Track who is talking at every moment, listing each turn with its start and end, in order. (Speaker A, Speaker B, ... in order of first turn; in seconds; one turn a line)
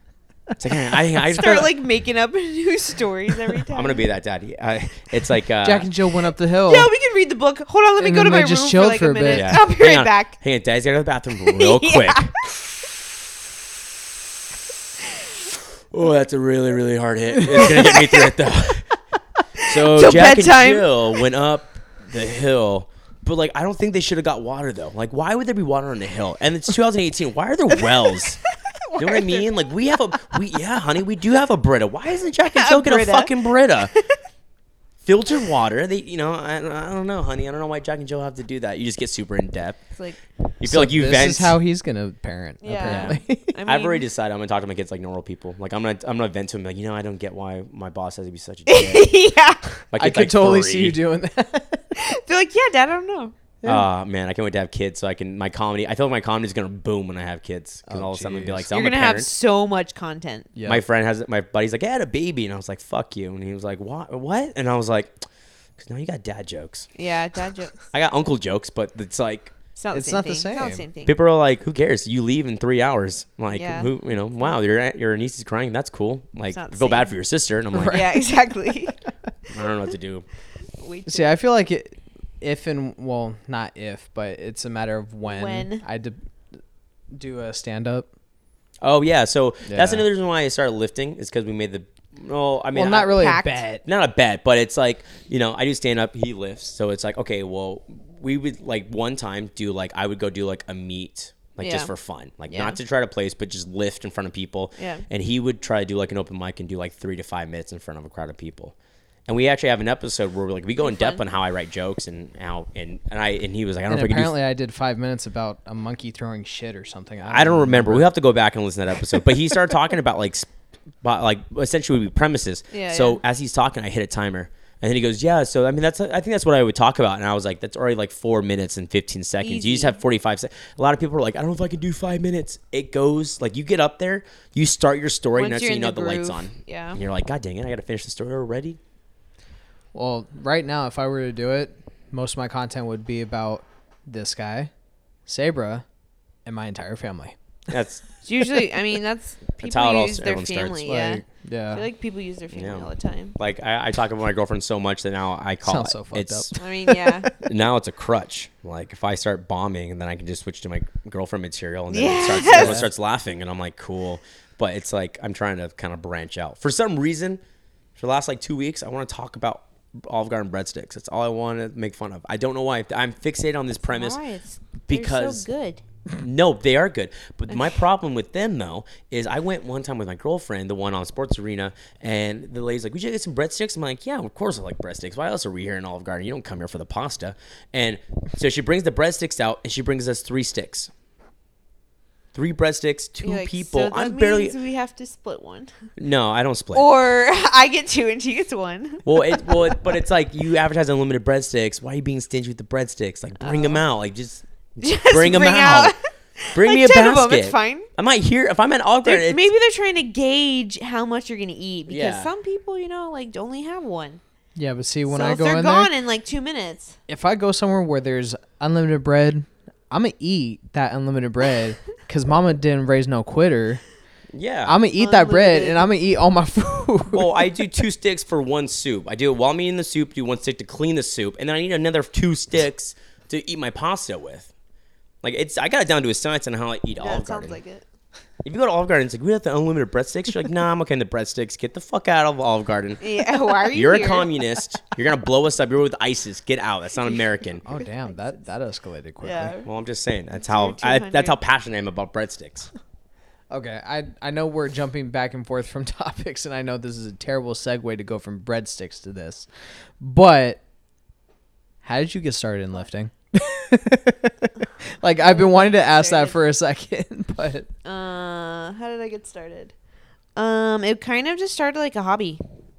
Speaker A: 0.6-1.7
Speaker B: 1.2-4.0
Speaker A: 3.7-5.9
Speaker C: 5.6-6.9
Speaker B: 6.6-10.3
Speaker C: 8.0-9.6
Speaker A: 9.3-12.3
Speaker B: 11.5-12.5
Speaker A: 15.9-18.9
Speaker B: 17.6-18.3
Speaker B: 19.6-21.2
Speaker A: 19.6-28.4
Speaker B: 27.9-29.5
Speaker A: 28.9-33.9
Speaker B: 32.5-33.4
Speaker A: 35.0-39.8
Speaker A: 40.6-41.6
Speaker C: 40.6-43.5
Speaker B: 42.6-44.0
Speaker A: 42.8-49.1
Speaker B: 48.7-49.8
Speaker A: 49.9-51.0
Speaker C: 50.0-51.9
Speaker B: 51.9-53.3
Speaker A: 53.6-59.3
Speaker C: 57.9-58.6
Speaker B: 58.7-60.5
Speaker C: 60.5-60.8
Speaker A: 60.6-65.2
Speaker A: 65.8-66.9
Speaker B: 67.0-67.8
Speaker A: 67.9-69.5
Speaker B: 69.8-71.1
Speaker C: 69.9-70.8
Speaker A: 71.0-78.1
Speaker B: 73.5-73.9
Speaker B: 76.5-77.1
Speaker C: 77.7-78.2
Speaker B: 77.8-79.0
Speaker A: 79.5-80.2
Speaker B: 80.8-81.3
Speaker C: 81.1-86.6
Speaker B: 85.2-85.8
Speaker C: 87.1-88.1
Speaker A: 88.8-93.2
Speaker C: 89.6-90.0
Speaker C: 92.7-93.8
Speaker B: 93.0-93.6
Speaker A: 93.8-108.7
Speaker B: 101.6-101.9
Speaker B: 102.5-102.8
Speaker B: 104.8-105.0
Speaker A: 109.3-114.3
Speaker B: 110.8-111.2
Speaker C: 113.9-118.1
Speaker A: 117.3-120.5
Speaker A: 121.0-138.8
Speaker B: 122.7-123.2
Speaker B: 129.4-130.0
Speaker B: 135.3-137.0
Speaker C: 139.9-144.7
Speaker C: 145.2-145.8
Speaker C: 146.4-147.3
Speaker A: 147.7-148.1
Speaker B: 148.2-153.3
Speaker A: 149.6-150.9
Speaker C: 150.8-151.8
Speaker A: 152.5-156.6
Speaker C: 155.6-157.3
Speaker B: 156.6-157.3
Speaker A: 157.3-167.4
Speaker B: 161.9-162.8
Speaker C: 162.4-162.9
Speaker A: 167.9-174.2
Speaker B: 173.8-175.8
Speaker A: 174.9-175.4
Speaker A: 176.2-190.9
Speaker A: 192.3-194.6
Speaker B: 193.2-195.7
Speaker A: 196.0-196.9
Speaker B: 196.7-199.8
Speaker A: 199.0-205.9
Speaker B: 203.4-203.8
Speaker B: 204.8-207.9
Speaker A: 206.5-209.5
Speaker B: 209.0-214.2
Speaker A: 211.9-212.3
Speaker C: 214.6-215.9
Speaker B: 215.1-217.0
Speaker C: 217.1-223.8
Speaker A: 224.3-224.8
Speaker C: 224.7-227.3
Speaker B: 225.0-225.8
Speaker A: 227.1-234.5
Speaker A: 235.2-237.6
Speaker B: 237.0-237.8
Speaker A: 238.4-243.1
Speaker B: 243.0-244.3
Speaker A: 243.7-247.6
Speaker C: 247.6-249.5
Speaker B: 249.2-249.7
Speaker A: 249.6-252.7
Speaker B: 250.4-251.4
Speaker C: 253.5-259.5
Speaker C: 260.0-260.6
Speaker C: 261.8-267.7
Speaker B: 265.2-266.4
Speaker B: 267.8-269.7
Speaker B: 270.4-272.4